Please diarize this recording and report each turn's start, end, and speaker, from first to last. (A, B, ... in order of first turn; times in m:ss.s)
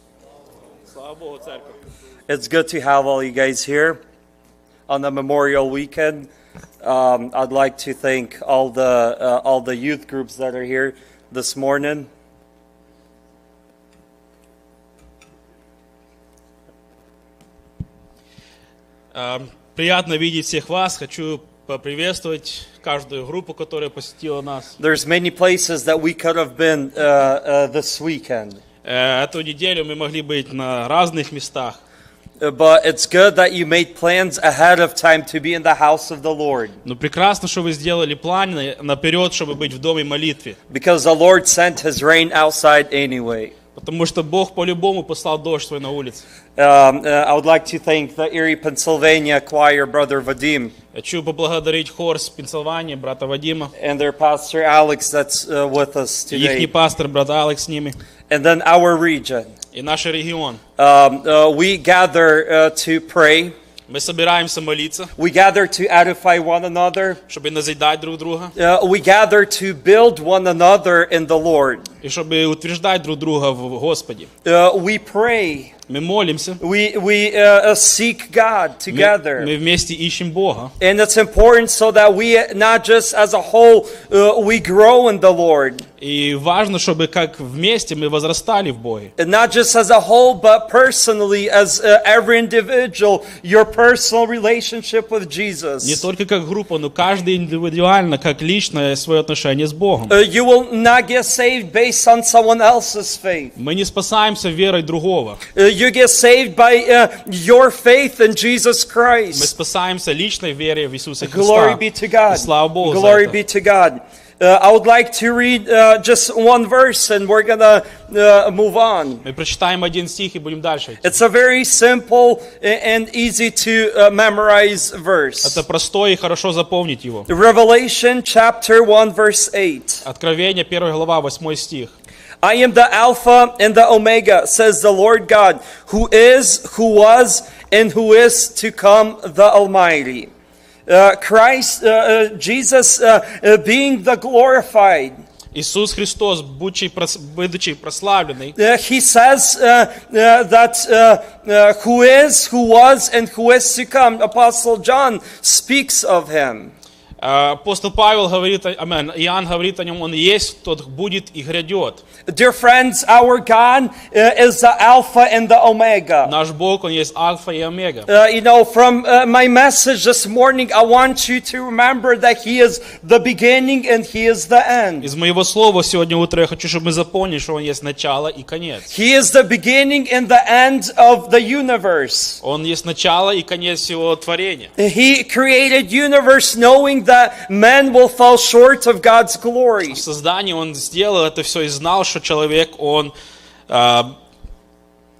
0:00.9-0:01.7 A
0:02.3-0:04.0 B
0:04.9-0:06.3 B
0:06.8-0:12.1 B
0:19.1-0:24.7 A
0:24.8-0:28.6 B
0:28.8-0:31.8 A
0:32.4-0:36.8 B
0:36.8-0:40.6 A
0:40.7-0:43.5 B
0:43.7-0:46.2 A
0:46.6-0:50.7 B
0:50.9-0:53.7 A
0:53.8-0:56.7 B
0:56.3-0:58.0 A
0:58.3-0:59.5 B
0:59.7-1:00.6 A
1:00.8-1:03.5 B
1:03.9-1:05.1 A
1:05.2-1:07.2 B
1:07.3-1:08.5 A
1:08.5-1:11.8 B
1:12.0-1:14.3 A
1:14.4-1:15.7 B
1:15.9-1:16.6 A
1:16.6-1:19.5 B
1:18.9-1:20.7 A
1:20.8-1:25.8 B
1:26.0-1:29.1 A
1:29.2-1:36.0 B
1:35.8-1:40.1 A
1:40.1-1:43.5 B
1:43.6-1:45.4 A
1:45.5-1:49.5 B
1:49.3-1:53.4 A
1:51.2-1:59.2 B
1:59.2-2:01.1 A
2:01.0-2:05.6 B
2:05.4-2:07.3 A
2:07.3-2:10.0 B
2:10.0-2:11.9 A
2:12.4-2:20.3 B
2:20.9-2:25.1 B
2:25.5-2:28.5 A
2:28.6-2:36.7 B
2:37.2-2:42.0 A
2:42.3-2:46.3 B
2:46.2-2:48.1 A
2:48.1-2:55.1 B
2:55.0-2:58.9 A
2:58.9-3:02.4 B
3:02.4-3:04.7 A
3:04.8-3:10.0 B
3:09.9-3:13.1 A
3:13.7-3:14.1 A